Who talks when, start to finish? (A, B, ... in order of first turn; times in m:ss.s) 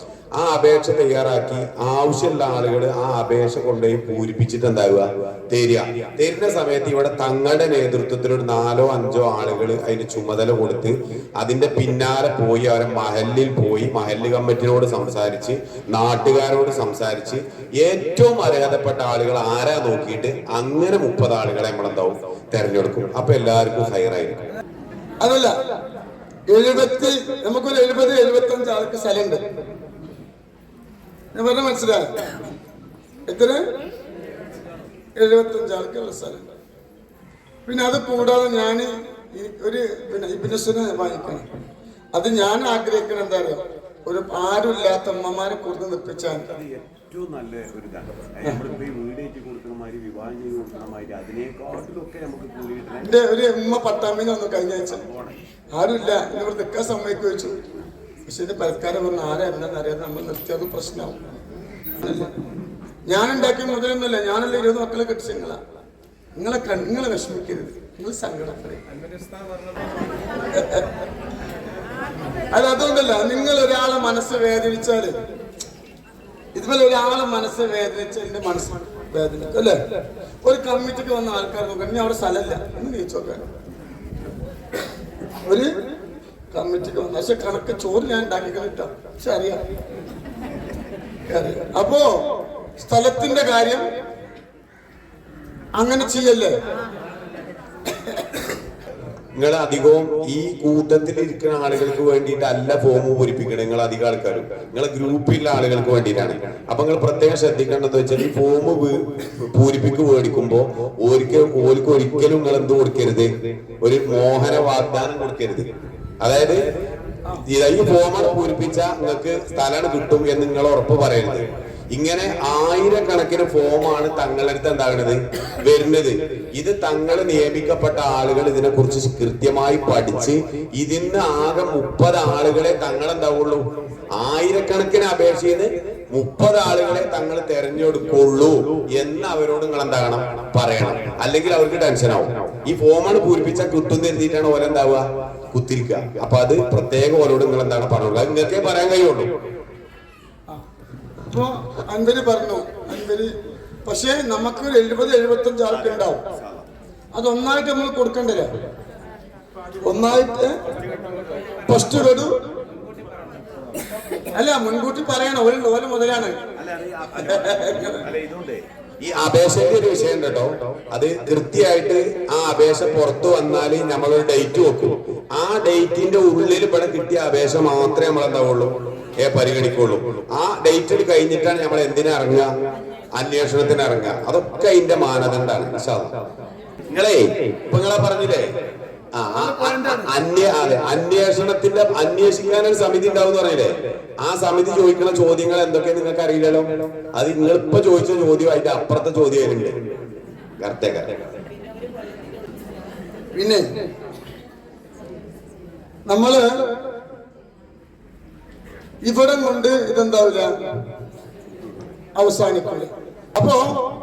0:00.4-0:24.5 A
0:25.2-0:25.5 B
0:26.5-0:29.4 B
0:31.3-0:32.1 B
0:33.3-0:33.6 B
0:35.2-0:36.5 B
0:37.7-0:41.4 B
0:42.1-0:46.4 B
0:46.5-0:53.2 C
0:53.0-0:55.0 B
0:54.9-0:55.4 C
0:55.7-0:57.5 B
0:58.3-1:01.2 B
1:02.0-1:02.3 B
1:03.1-1:05.6 B
1:06.4-1:08.8 B
1:10.5-1:10.9 B
1:12.5-1:15.1 B
1:16.5-1:19.8 B
1:20.4-1:23.4 B
1:25.5-1:25.8 B
1:26.5-1:29.6 B
1:31.3-1:32.1 B
1:32.8-1:33.8 B
1:35.8-1:36.5 B
1:39.4-1:53.3 A
1:53.8-1:55.7 A
1:56.2-1:56.7 A
1:57.4-2:29.3 A
2:31.3-2:33.3 B
2:33.8-2:36.2 B
2:36.0-2:36.5 C
2:37.1-2:38.5 B
2:39.8-2:40.6 B
2:40.9-2:41.6 C
2:41.6-2:42.3 B
2:44.3-2:46.4 B
2:46.6-2:48.6 C
2:47.3-2:48.0 B
2:49.0-3:02.5 A
3:03.2-3:06.2 A
3:06.9-3:08.5 A
3:09.1-3:19.9 A
3:09.4-3:10.1 B
3:20.6-3:21.1 A
3:23.3-3:23.6 B
3:26.1-3:26.5 B
3:29.0-3:30.5 B
3:32.2-3:33.8 B